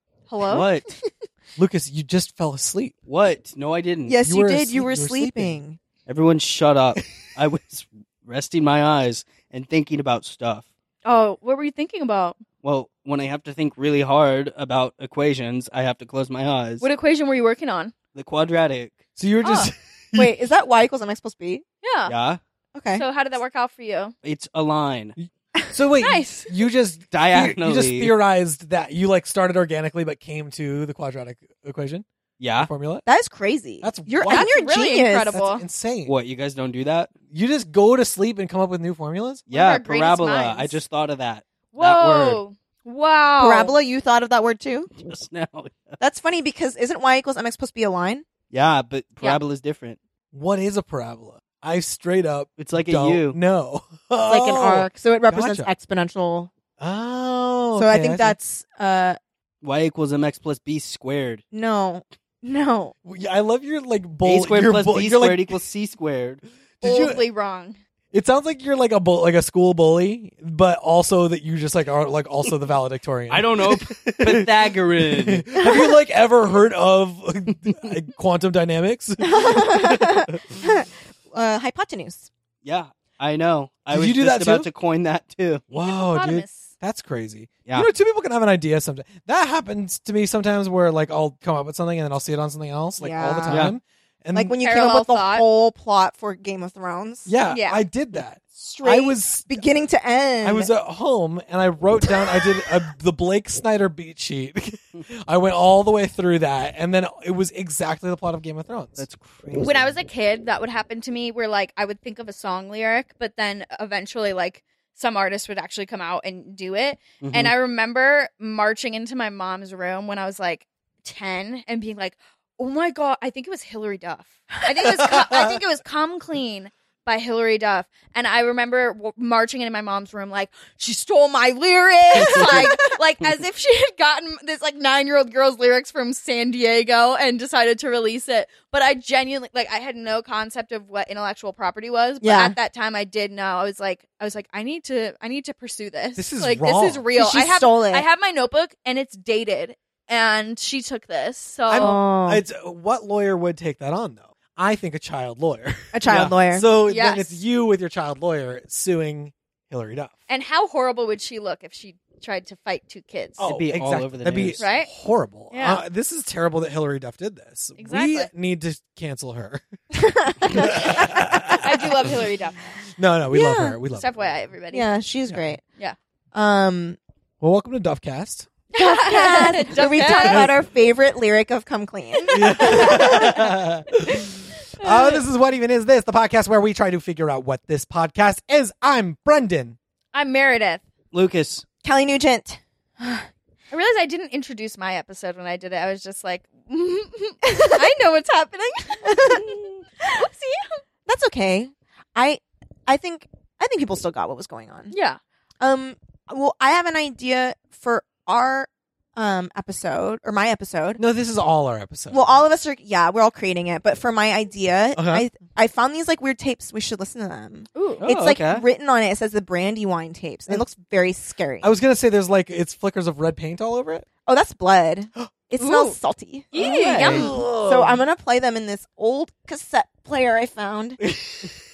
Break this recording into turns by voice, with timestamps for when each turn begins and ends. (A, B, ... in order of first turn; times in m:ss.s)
0:00.3-0:00.6 A
0:00.4-0:00.8 B
0:01.6-0:02.9 C
0:03.1-0:04.2 B
0:04.1-0:05.8 D
0:04.2-0:05.6 C
0:06.1-0:10.7 B
0:11.0-0:12.4 A
0:12.6-0:16.8 B
0:16.8-0:17.9 A
0:18.2-0:19.0 B
0:19.2-0:20.4 C
0:19.4-0:19.7 A
0:20.2-0:21.6 D
0:21.8-0:22.1 A
0:22.1-0:22.4 B
0:22.8-0:23.0 D
0:23.0-0:24.1 A
0:24.2-0:25.2 B
0:25.2-0:32.0 C
0:26.0-0:26.5 A
0:27.1-0:28.1 B
0:32.4-0:32.7 B
0:32.6-0:33.0 C
0:33.1-0:35.4 D
0:33.8-0:34.5 C
0:34.3-0:35.6 A
0:35.3-0:36.2 C
0:36.1-0:37.1 B
0:37.3-0:39.4 C
0:39.5-0:42.4 B
0:39.5-0:40.7 A
0:41.7-0:43.7 A
0:43.4-0:44.9 D
0:45.1-0:46.0 B
0:46.0-0:48.2 D
0:48.5-0:50.0 B
0:50.3-0:55.7 C
0:52.6-0:53.4 B
0:54.3-0:56.5 D
0:56.8-0:58.4 C
0:57.8-0:59.2 D
0:59.6-1:01.4 B
1:01.5-1:03.0 D
1:03.0-1:05.6 C
1:04.2-1:06.4 B
1:06.8-1:07.2 C
1:06.8-1:07.8 A
1:08.1-1:20.2 C
1:13.3-1:15.5 B
1:15.6-1:15.9 D
1:19.2-1:22.3 D
1:22.6-1:25.6 B
1:23.9-1:24.7 C
1:25.7-1:34.6 C
1:25.9-1:26.7 A
1:33.0-1:33.7 D
1:33.5-1:33.8 B
1:34.4-1:37.3 D
1:34.6-1:35.4 A
1:37.3-1:39.6 C
1:37.5-1:37.8 A
1:38.6-1:40.7 D
1:40.4-1:49.0 C
1:42.0-1:42.6 D
1:49.0-1:49.9 B
1:49.6-2:32.0 A
1:57.2-1:57.5 B
2:05.0-2:05.5 C
2:12.2-2:13.0 D
2:12.2-2:12.6 B
2:22.2-2:22.5 D
2:26.2-2:27.1 C
2:27.2-2:28.1 D
2:31.7-2:40.1 C
2:31.7-2:32.4 D
2:35.9-2:36.7 D
2:36.1-2:36.4 B
2:36.9-2:37.4 A
2:40.3-2:43.4 A
2:43.4-2:49.6 C
2:43.4-2:44.6 B
2:44.6-2:44.9 A
2:45.5-2:45.8 A
2:47.8-2:48.3 A
2:50.0-2:51.6 D
2:50.5-2:51.7 C
2:51.6-2:52.6 A
2:53.0-2:54.2 C
2:53.3-2:53.8 D
2:53.9-2:54.9 A
2:54.7-2:55.6 D
2:56.3-2:57.0 D
2:57.4-2:58.5 C
2:58.7-3:00.5 A
2:58.8-3:03.6 D
2:59.8-3:00.6 C
3:02.3-3:09.8 C
3:02.5-3:03.4 A
3:04.8-3:05.2 A
3:10.1-3:10.8 A
3:11.1-3:11.6 B
3:11.8-3:13.2 D
3:13.7-3:20.8 A
3:17.5-3:17.8 D
3:19.0-3:20.1 D
3:21.1-3:24.9 D
3:24.9-3:25.2 A
3:25.6-3:31.0 D
3:31.0-3:32.4 C
3:32.1-3:41.7 D
3:35.0-3:35.3 C
3:37.8-3:38.0 A
3:38.0-3:38.6 B
3:41.6-3:44.1 C
3:44.3-3:51.0 D
3:45.6-3:46.0 A
3:46.5-3:47.3 A
3:46.6-3:47.3 B
3:46.8-3:48.0 C